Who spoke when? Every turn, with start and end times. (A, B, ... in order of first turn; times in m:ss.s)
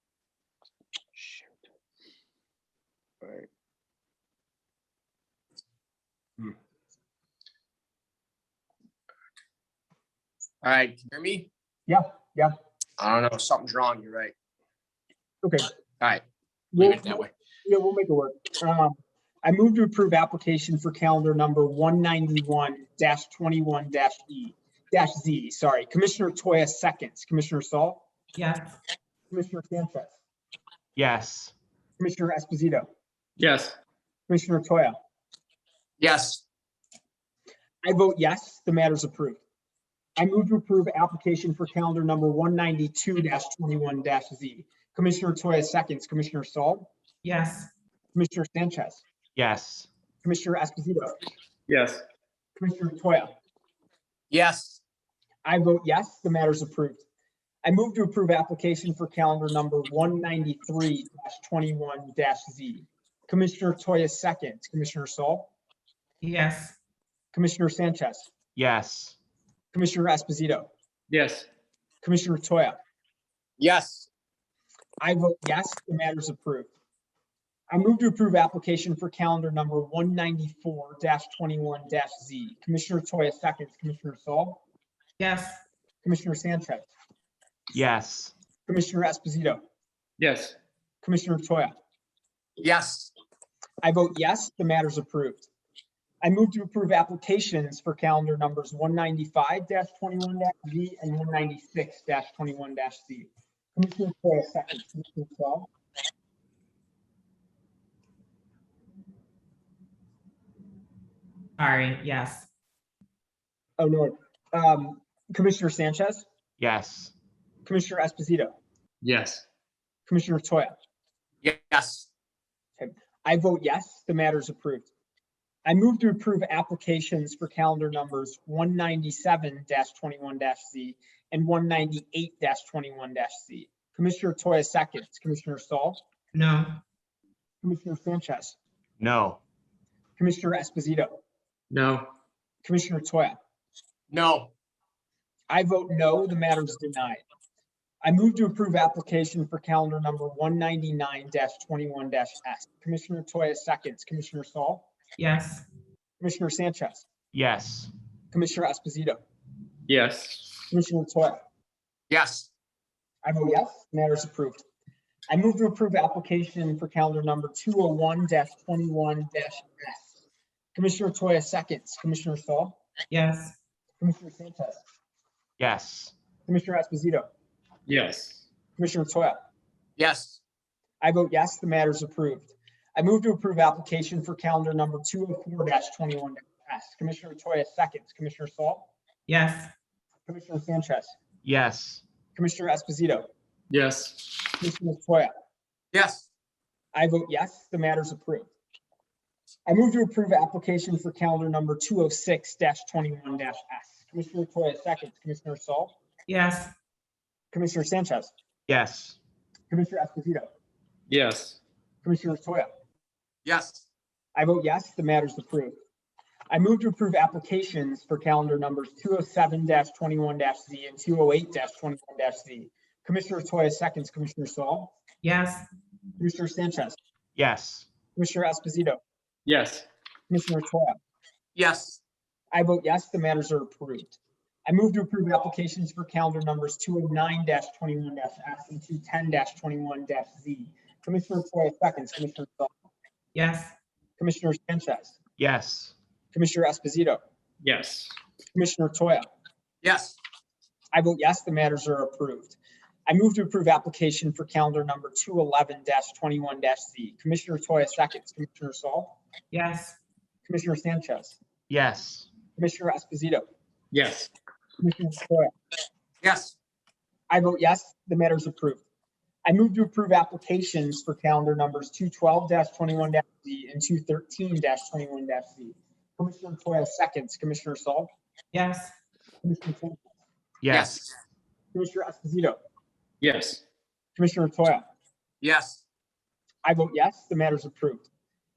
0:01.2-0:01.5 A
0:03.2-0:03.5 A
0:10.6-0:11.5 A
0:11.9-0:12.6 B
0:13.0-0:14.3 A
0:15.4-0:15.7 B
0:16.7-0:28.0 B
0:16.8-0:17.3 A
0:28.4-0:28.8 C
0:29.3-0:30.2 B
0:31.0-0:31.5 D
0:32.0-0:32.9 B
0:33.4-0:33.8 E
0:34.3-0:35.0 B
0:36.0-0:36.4 A
0:37.8-0:39.4 B
0:40.2-0:46.9 B
0:47.2-0:47.7 C
0:48.2-0:49.0 B
0:49.4-0:49.9 D
0:50.2-0:51.2 B
0:51.7-0:52.0 E
0:52.6-0:53.3 B
0:54.3-0:54.8 A
0:55.4-0:57.0 B
0:57.6-1:05.5 B
1:06.2-1:06.8 C
1:07.3-1:08.3 B
1:08.6-1:09.2 D
1:09.7-1:10.7 B
1:11.1-1:11.5 E
1:12.0-1:12.8 B
1:13.6-1:14.1 A
1:15.0-1:16.7 B
1:17.7-1:24.6 B
1:25.2-1:25.6 C
1:26.0-1:26.9 B
1:27.7-1:28.3 D
1:28.7-1:29.6 B
1:30.2-1:30.6 E
1:31.0-1:31.7 B
1:32.6-1:33.1 A
1:33.8-1:35.5 B
1:36.2-1:45.7 B
1:51.6-1:52.5 C
1:53.8-1:56.3 B
1:56.6-1:57.1 D
1:57.7-1:58.5 B
1:59.0-1:59.4 E
2:00.1-2:00.8 B
2:01.4-2:02.1 A
2:02.8-2:04.9 B
2:05.6-2:16.0 B
2:16.3-2:16.8 C
2:17.6-2:18.6 B
2:19.0-2:19.4 D
2:20.2-2:21.2 B
2:21.7-2:22.1 E
2:22.6-2:23.4 B
2:24.1-2:24.5 A
2:25.5-2:27.2 B
2:28.0-2:34.9 B
2:35.2-2:35.6 C
2:36.2-2:37.1 B
2:37.3-2:37.9 D
2:38.3-2:39.2 B
2:39.9-2:40.6 E
2:40.7-2:41.4 B
2:42.1-2:42.5 A
2:43.2-2:44.6 B
2:45.3-2:50.2 B
2:50.8-2:52.8 B
2:53.1-2:53.6 C
2:54.0-2:54.8 B
2:55.6-2:56.1 D
2:56.5-2:57.3 B
2:57.9-2:58.4 E
2:58.8-2:59.4 B
3:00.0-3:00.4 A
3:01.0-3:08.9 B
3:09.3-3:09.7 C
3:10.3-3:11.1 B
3:11.4-3:12.0 D
3:12.4-3:13.3 B
3:13.7-3:14.4 E
3:14.6-3:15.3 B
3:15.9-3:16.2 A
3:16.9-3:18.5 B
3:19.7-3:26.0 B
3:26.3-3:26.7 C
3:27.5-3:28.3 B
3:28.7-3:29.2 D
3:29.7-3:30.5 B
3:31.1-3:31.6 E
3:32.0-3:32.7 B
3:33.4-3:33.8 A
3:34.4-3:35.8 B
3:36.5-3:44.9 B
3:45.2-3:45.7 C
3:46.2-3:47.0 B
3:47.4-3:47.9 D
3:48.2-3:49.0 B
3:49.5-3:49.9 E
3:50.3-3:51.0 B
3:51.6-3:52.0 A
3:52.5-4:02.7 B
4:03.4-4:03.7 C
4:04.2-4:05.2 B
4:05.4-4:06.0 D
4:06.3-4:07.2 B
4:07.6-4:08.2 E
4:08.5-4:09.3 B
4:09.8-4:10.2 A
4:10.9-4:12.6 B
4:13.1-4:19.2 B
4:19.5-4:20.0 C
4:20.5-4:21.4 B
4:21.7-4:22.3 D
4:22.6-4:23.4 B
4:23.9-4:24.3 E
4:24.8-4:25.5 B
4:26.2-4:26.6 A
4:27.3-4:28.8 B
4:29.4-4:38.1 B
4:38.5-4:38.9 C
4:39.4-4:40.1 B
4:40.6-4:41.1 D
4:40.7-4:41.0 A
4:41.7-4:42.6 B
4:43.2-4:43.6 E
4:44.2-4:44.8 B
4:45.4-4:45.8 A
4:46.6-4:48.1 B